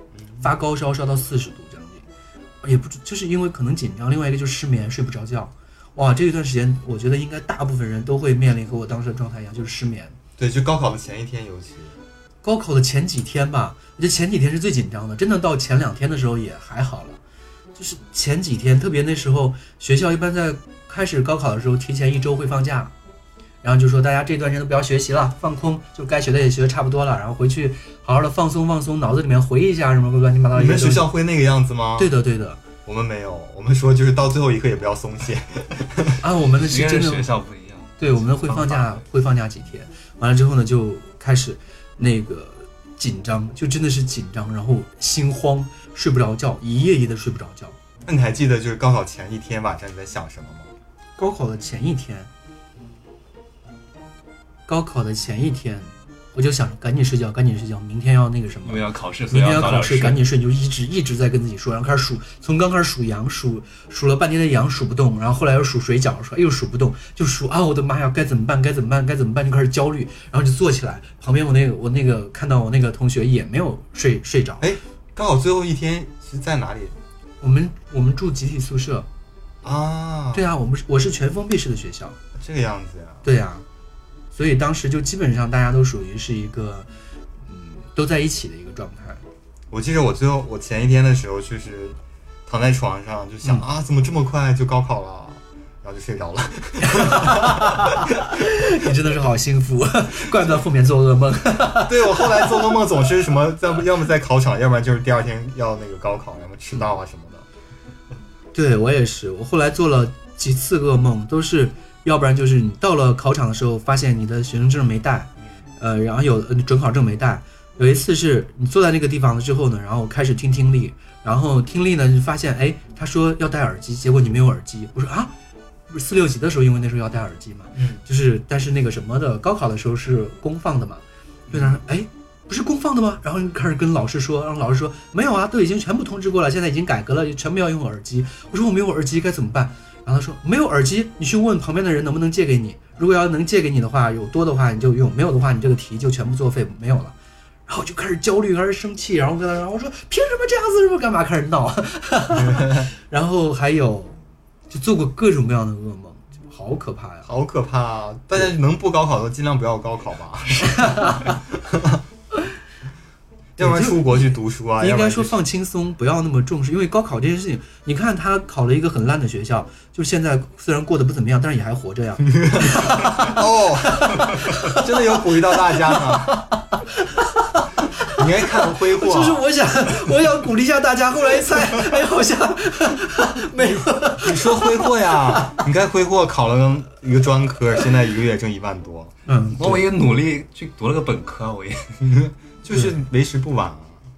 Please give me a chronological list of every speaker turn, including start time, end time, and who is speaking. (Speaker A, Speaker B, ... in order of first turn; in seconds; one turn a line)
Speaker A: 0.4-2.1
Speaker A: 2.6-10.2
Speaker B: 10.4-12.0
Speaker A: 12.4-17.2
Speaker A: 17.8-22.9
Speaker A: 23.6-31.1
Speaker B: 30.5-32.1
Speaker A: 32.0-32.6
Speaker B: 32.9-36.2
Speaker A: 36.2-37.3
Speaker C: 36.6-39.0
Speaker A: 38.0-47.8
Speaker B: 48.0-50.7
Speaker A: 51.2-52.3
Speaker A: 54.7-74.7
Speaker C: 58.6-60.3
Speaker B: 74.6-77.0
Speaker A: 77.4-79.1
Speaker B: 79.6-80.5
Speaker A: 80.3-82.2
Speaker B: 82.3-83.3
Speaker A: 83.2-83.6
Speaker A: 84.3-86.9
Speaker A: 87.5-89.2
Speaker B: 89.7-98.0
Speaker A: 96.8-102.8
Speaker B: 101.8-107.5
Speaker A: 108.5-125.3
Speaker A: 125.9-147.2
Speaker B: 127.8-128.0
Speaker B: 131.5-131.8
Speaker A: 147.7-154.2
Speaker B: 152.5-152.8
Speaker A: 154.7-157.3
Speaker B: 157.2-162.0
Speaker A: 160.6-161.3
Speaker B: 163.6-165.4
Speaker A: 163.6-185.7
Speaker B: 172.3-176.4
Speaker B: 178.1-179.4
Speaker B: 184.2-189.1
Speaker A: 189.3-189.8
Speaker C: 189.6-191.9
Speaker B: 192.0-194.0
Speaker A: 192.7-193.0